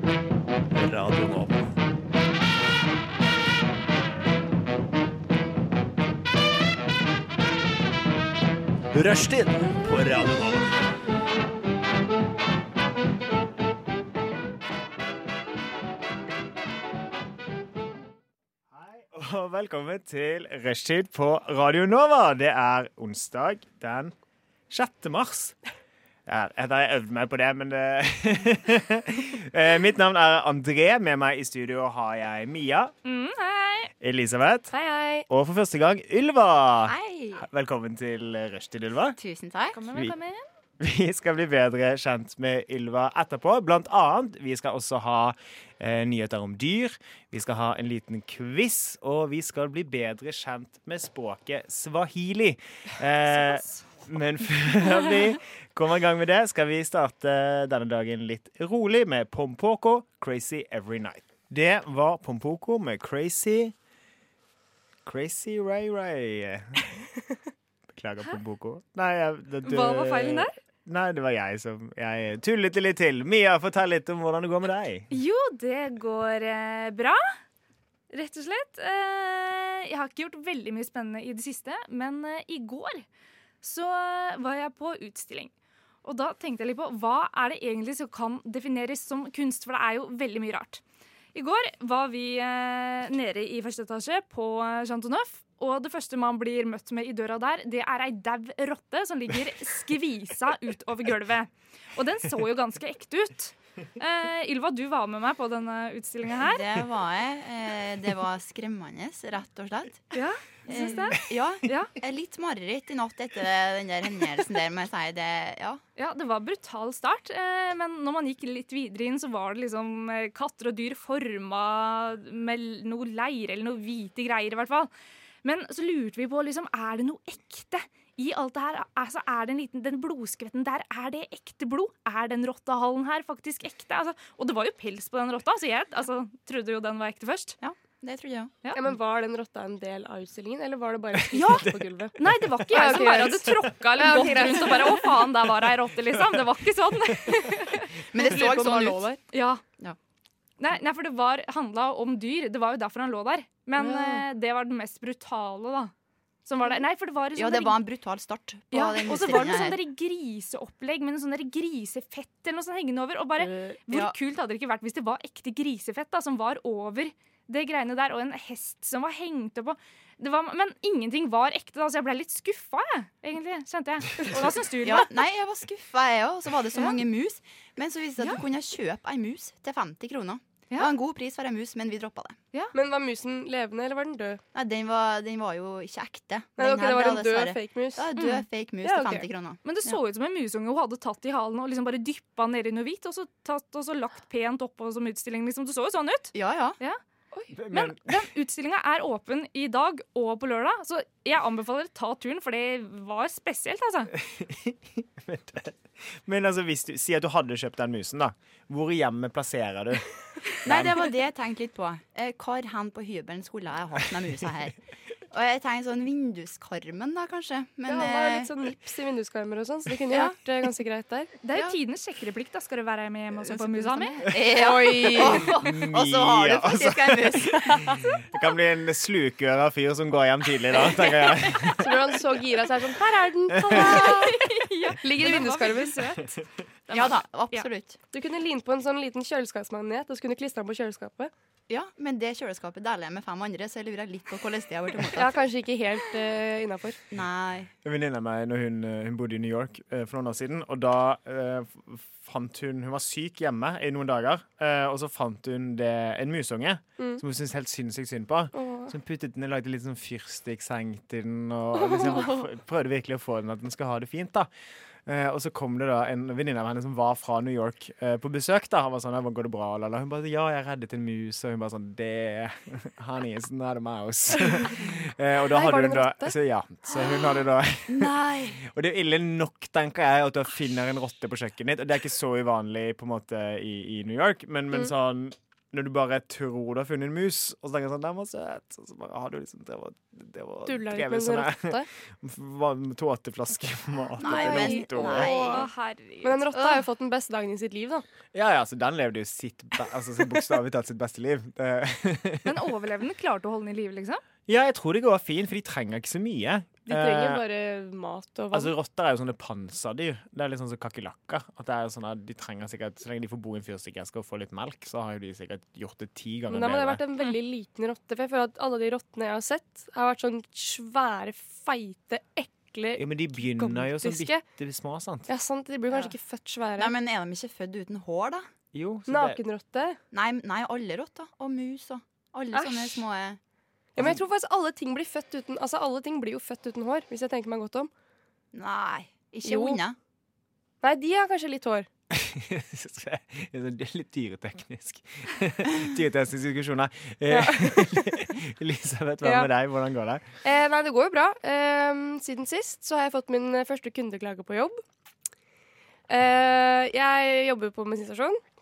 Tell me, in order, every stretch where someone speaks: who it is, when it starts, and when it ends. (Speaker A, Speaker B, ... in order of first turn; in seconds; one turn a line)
Speaker A: 0.7-1.7
Speaker A: 8.9-10.7
Speaker B: 18.7-24.1
Speaker B: 24.7-25.6
Speaker B: 26.2-32.9
Speaker C: 33.0-33.9
Speaker B: 34.0-34.7
Speaker D: 34.7-35.3
Speaker B: 35.3-39.2
Speaker E: 36.9-37.4
Speaker E: 39.2-39.8
Speaker C: 39.7-40.4
Speaker B: 40.8-63.7
Speaker C: 53.4-53.8
Speaker B: 65.0-67.0
Speaker B: 67.9-75.1
Speaker C: 69.6-70.5
Speaker C: 75.1-77.2
Speaker C: 78.1-83.0
Speaker C: 83.6-85.5
Speaker C: 86.0-90.8
Speaker C: 91.3-106.8
Speaker E: 106.4-110.1
Speaker C: 110.1-111.9
Speaker E: 110.7-115.8
Speaker C: 116.0-124.9
Speaker C: 125.4-137.6
Speaker E: 137.6-138.5
Speaker D: 138.7-142.1
Speaker B: 141.1-141.7
Speaker E: 141.4-141.6
Speaker C: 142.2-148.0
Speaker D: 142.7-145.1
Speaker E: 148.1-149.1
Speaker D: 148.2-149.2
Speaker C: 149.3-149.6
Speaker C: 150.6-155.9
Speaker D: 153.8-154.2
Speaker C: 156.4-157.8
Speaker E: 157.3-159.8
Speaker C: 158.7-175.2
Speaker E: 163.9-164.1
Speaker E: 174.8-182.4
Speaker D: 182.7-184.4
Speaker E: 184.5-190.0
Speaker D: 186.6-188.1
Speaker C: 188.2-188.4
Speaker D: 188.8-189.2
Speaker C: 189.6-197.0
Speaker E: 196.3-196.8
Speaker B: 197.5-198.2
Speaker C: 197.7-204.1
Speaker B: 204.1-210.1
Speaker B: 210.6-211.0
Speaker E: 210.6-214.8
Speaker E: 215.3-218.5
Speaker D: 217.9-221.3
Speaker C: 221.4-224.3
Speaker E: 223.4-227.9
Speaker D: 224.6-225.5
Speaker B: 225.5-232.0
Speaker D: 231.8-236.1
Speaker B: 233.5-234.1
Speaker C: 233.7-237.7
Speaker E: 236.9-238.0
Speaker D: 238.1-241.3
Speaker E: 241.7-245.4
Speaker D: 245.1-247.0
Speaker E: 247.1-247.7
Speaker B: 247.8-264.5
Speaker D: 258.5-258.9
Speaker D: 261.8-262.4
Speaker B: 265.1-295.3
Speaker D: 274.4-274.7
Speaker D: 275.5-276.4
Speaker E: 277.9-278.6
Speaker D: 290.6-291.9
Speaker E: 294.2-295.6
Speaker D: 294.3-295.6
Speaker C: 295.1-296.4
Speaker D: 296.2-298.0
Speaker E: 296.5-296.8
Speaker B: 298.3-302.6
Speaker C: 302.4-304.2
Speaker B: 304.5-307.4
Speaker D: 306.9-308.7
Speaker B: 308.5-317.0
Speaker D: 316.5-324.4
Speaker B: 322.9-325.3
Speaker D: 325.3-326.9
Speaker E: 326.8-328.5
Speaker B: 328.7-329.4
Speaker D: 329.1-330.0
Speaker E: 330.1-333.4
Speaker D: 332.5-333.0
Speaker D: 333.9-337.9
Speaker E: 338.5-340.0
Speaker D: 339.4-339.8
Speaker D: 340.8-341.9
Speaker B: 342.1-350.2
Speaker D: 347.3-348.2
Speaker D: 349.2-349.5
Speaker D: 350.4-354.8
Speaker D: 356.1-358.4